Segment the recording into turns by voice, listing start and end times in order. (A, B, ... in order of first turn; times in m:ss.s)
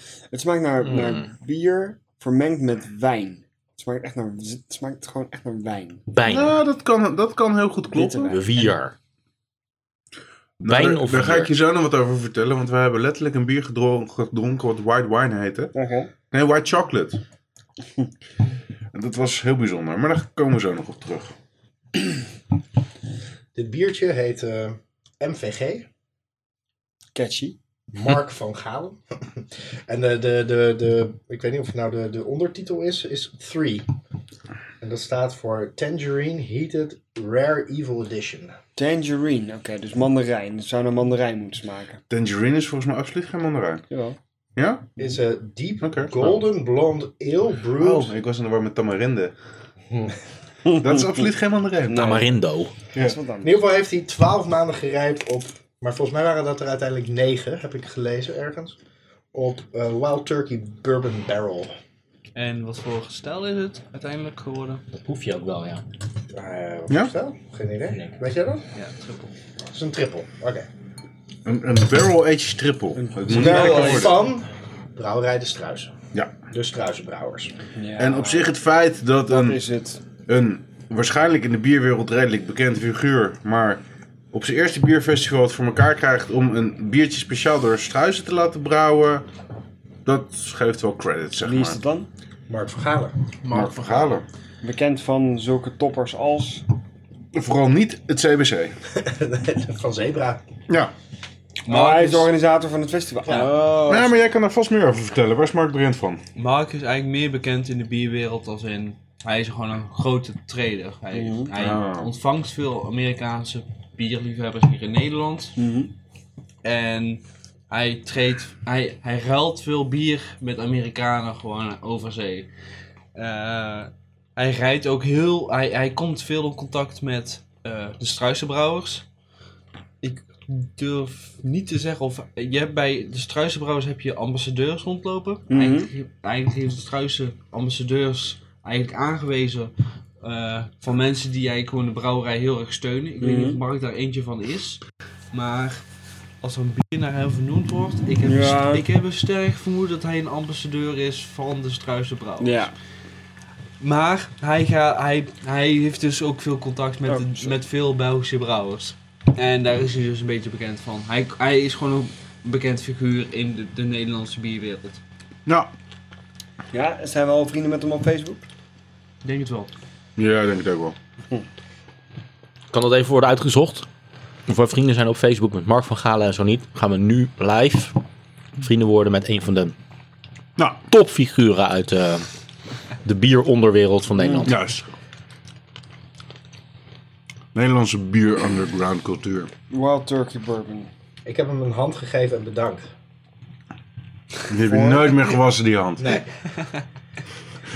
0:00.3-0:06.0 A
0:00.8-0:01.2 B
0:06.1-0:06.6 B
0:06.3-0:08.4 C
0:07.9-0:08.7 A
0:08.3-0:08.9 B
0:10.6-0:15.7 C
0:10.6-0:11.5 B
0:15.7-0:16.1 A
0:16.3-0:17.2 C
0:18.9-0:21.3 C
0:23.6-0:25.9 D
0:27.2-0:27.6 A
0:27.9-0:33.9 D
0:34.8-0:38.6 D
0:38.8-0:42.0 A
0:42.1-0:43.8 C
0:43.9-0:44.2 A
0:44.6-0:45.0 C
0:45.0-0:48.1 D
0:45.8-0:46.4 C
0:47.8-0:49.3 C
0:50.7-0:51.2 A
0:50.7-0:52.2 C
0:51.9-0:52.3 A
0:51.9-0:52.7 B
0:53.0-0:53.6 A
0:53.4-0:58.8 D
0:59.3-1:01.7 D
1:02.4-1:04.8 E
1:04.9-1:05.8 B
1:06.3-1:08.6 D
1:08.8-1:09.3 E
1:09.7-1:10.7 D
1:11.4-1:14.2 C
1:13.0-1:14.2 A
1:13.3-1:16.0 D
1:13.4-1:14.1 E
1:16.5-1:17.5 D
1:17.8-1:18.5 A
1:18.0-1:19.6 C
1:19.3-1:20.0 A
1:20.3-1:23.8 C
1:24.3-1:29.2 C
1:30.1-1:31.8 C
1:31.4-1:32.1 A
1:32.5-1:34.0 D
1:33.5-1:34.2 C
1:34.6-1:36.6 A
1:37.3-1:38.7 C
1:38.9-1:40.4 D
1:41.7-1:42.3 E
1:41.7-1:44.2 A
1:43.6-1:46.2 C
1:46.4-1:55.6 E
1:51.1-1:51.5 A
1:51.6-1:52.1 C
1:55.6-1:55.9 A
1:56.6-2:02.5 E
2:03.2-2:09.0 E
2:10.0-2:25.8 E
2:15.5-2:15.9 A
2:23.2-2:23.6 A
2:26.4-2:32.7 E
2:28.2-2:28.9 A
2:32.4-2:32.7 A
2:33.8-2:45.0 E
2:37.1-2:37.6 A
2:46.7-2:48.5 A
2:49.2-2:49.7 E
2:50.2-2:51.0 C
2:52.7-2:53.9 B
2:54.5-2:58.0 B
2:58.6-2:59.7 B
3:00.9-3:02.3 B
3:03.0-3:04.6 B
3:04.2-3:04.5 A
3:04.4-3:04.8 C
3:07.6-3:09.5 C
3:09.7-3:10.9 A
3:11.3-3:12.9 D
3:14.5-3:16.2 C
3:14.6-3:15.2 A
3:16.0-3:16.3 D